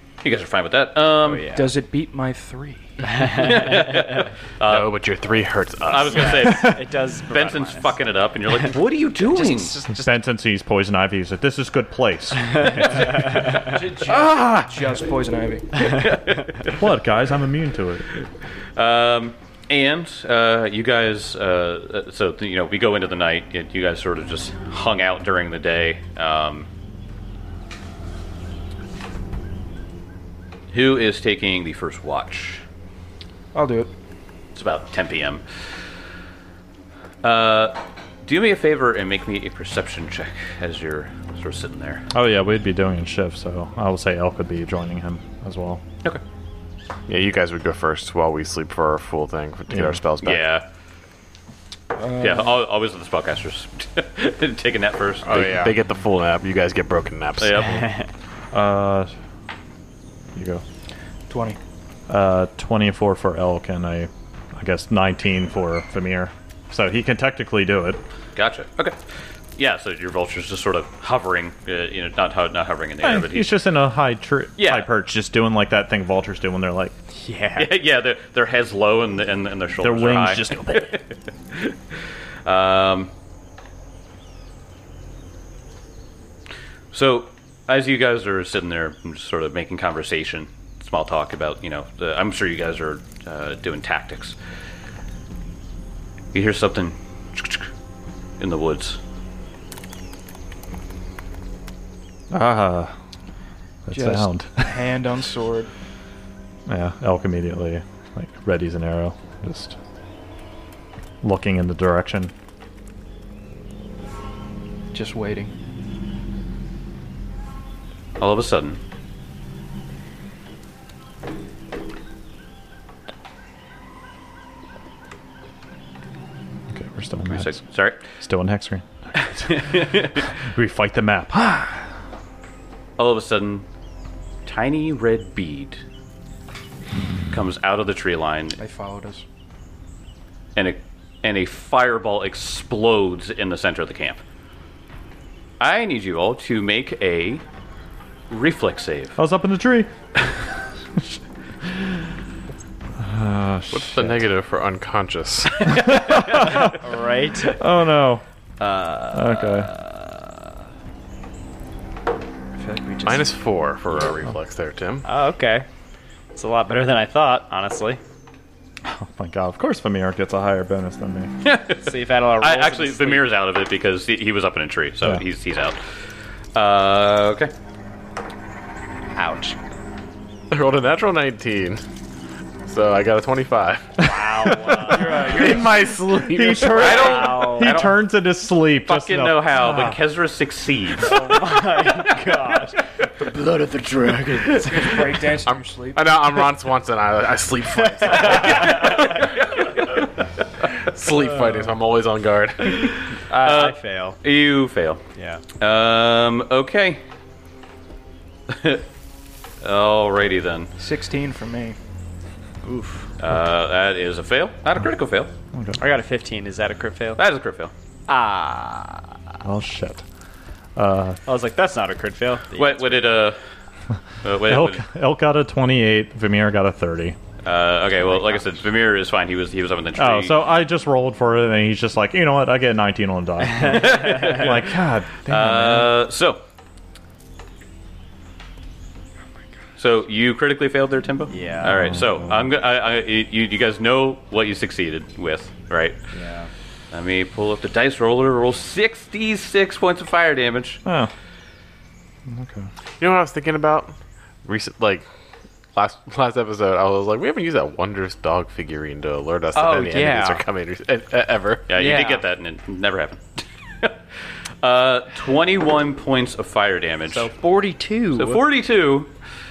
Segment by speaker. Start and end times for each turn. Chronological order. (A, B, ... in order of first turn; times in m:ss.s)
0:00.2-0:01.5 A
0:01.2-0:01.7 B
0:01.5-0:03.3 C
0:03.1-0:04.0 B
0:03.3-0:04.9 A
0:04.6-0:06.5 D
0:05.8-0:09.7 A
0:06.1-0:08.0 B
0:08.5-0:10.1 B
0:09.9-0:13.4 E
0:13.5-0:16.0 C
0:14.0-0:14.6 A
0:15.8-0:16.8 A
0:16.6-0:18.0 E
0:18.8-0:26.7 A
0:30.7-0:32.6 A
0:33.5-0:33.9 C
0:34.5-0:35.4 A
0:37.2-0:42.1 A
0:42.1-0:45.8 E
0:47.1-0:50.4 D
0:49.7-0:50.0 E
0:50.2-0:50.6 A
0:51.9-0:52.6 C
0:52.2-0:55.6 A
0:55.3-0:55.7 B
0:55.3-0:57.6 D
0:57.4-0:57.9 A
0:57.6-0:58.1 B
0:58.5-0:59.1 E
1:00.3-1:00.6 E
1:01.3-1:01.6 C
1:02.1-1:08.0 E
1:08.4-1:09.0 A
1:09.6-1:13.5 A
1:13.0-1:16.9 E
1:14.6-1:14.9 A
1:17.1-1:17.7 B
1:17.6-1:21.0 A
1:19.8-1:21.0 E
1:22.4-1:23.1 A
1:26.9-1:34.4 A
1:36.3-1:37.7 A
1:38.4-1:39.0 A
1:42.3-1:42.9 E
1:43.8-1:44.9 E
1:43.9-1:45.7 C
1:46.7-1:49.8 E
1:51.2-1:52.3 E
1:54.9-1:55.5 C
1:58.2-1:58.8 A
2:06.7-2:07.5 E
2:07.3-2:08.0 A
2:08.1-2:11.9 E
2:09.4-2:10.3 A
2:13.0-2:13.6 A
2:14.4-2:15.8 A
2:17.3-2:18.6 A
2:18.6-2:19.2 C
2:20.6-2:24.2 A
2:25.6-2:27.4 A
2:28.3-2:29.2 A
2:29.2-2:30.2 E
2:31.0-2:32.0 E
2:33.0-2:34.2 E
2:33.7-2:35.8 D
2:35.7-2:36.6 A
2:35.8-2:36.7 E
2:36.4-2:37.6 B
2:37.5-2:38.2 E
2:38.6-2:40.5 B
2:39.1-2:39.7 E
2:42.6-2:43.3 B
2:43.0-2:45.0 D
2:45.0-2:45.6 B
2:46.3-2:48.0 B
2:48.8-2:51.3 E
2:51.4-2:55.8 A
2:51.8-2:53.3 B
2:56.5-2:57.5 A
2:59.1-2:59.6 B
3:00.5-3:01.8 D
3:02.7-3:04.1 D
3:04.0-3:05.6 B
3:04.2-3:10.0 E
3:05.0-3:07.1 D
3:06.6-3:08.0 A
3:06.7-3:07.9 B
3:08.8-3:11.4 A
3:11.0-3:14.9 B
3:13.3-3:15.1 A
3:14.5-3:16.1 C
3:15.4-3:19.1 D
3:17.8-3:19.2 B
3:18.2-3:20.1 A
3:20.8-3:22.9 D
3:22.6-3:25.0 A
3:23.3-3:24.2 B
3:25.2-3:25.4 B
3:25.6-3:27.0 A
3:28.5-3:28.8 A
3:29.6-3:30.7 A
3:30.8-3:31.8 C
3:32.6-3:33.1 B
3:33.2-3:35.3 A
3:35.5-3:35.8 E
3:35.8-3:37.2 B
3:37.2-3:37.7 A
3:38.1-3:39.2 B
3:39.4-3:40.0 E
3:40.8-3:41.2 E
3:41.2-3:42.8 B
3:42.5-3:43.4 A
3:44.2-3:44.8 A
3:44.4-3:47.2 E
3:47.4-3:50.4 A
3:48.1-3:48.4 B
3:50.0-3:55.9 E
3:53.6-3:54.6 A
3:55.3-3:56.4 A
3:59.8-4:06.0 A
4:01.3-4:01.7 B
4:01.6-4:02.5 E
4:06.1-4:06.5 B
4:06.9-4:10.8 A
4:10.8-4:11.1 E
4:12.3-4:12.7 E
4:13.0-4:15.0 D
4:15.7-4:21.7 D
4:19.5-4:20.4 B
4:21.7-4:24.0 A
4:21.7-4:22.2 B
4:24.6-4:27.3 A
4:27.1-4:28.4 B
4:28.1-4:29.1 A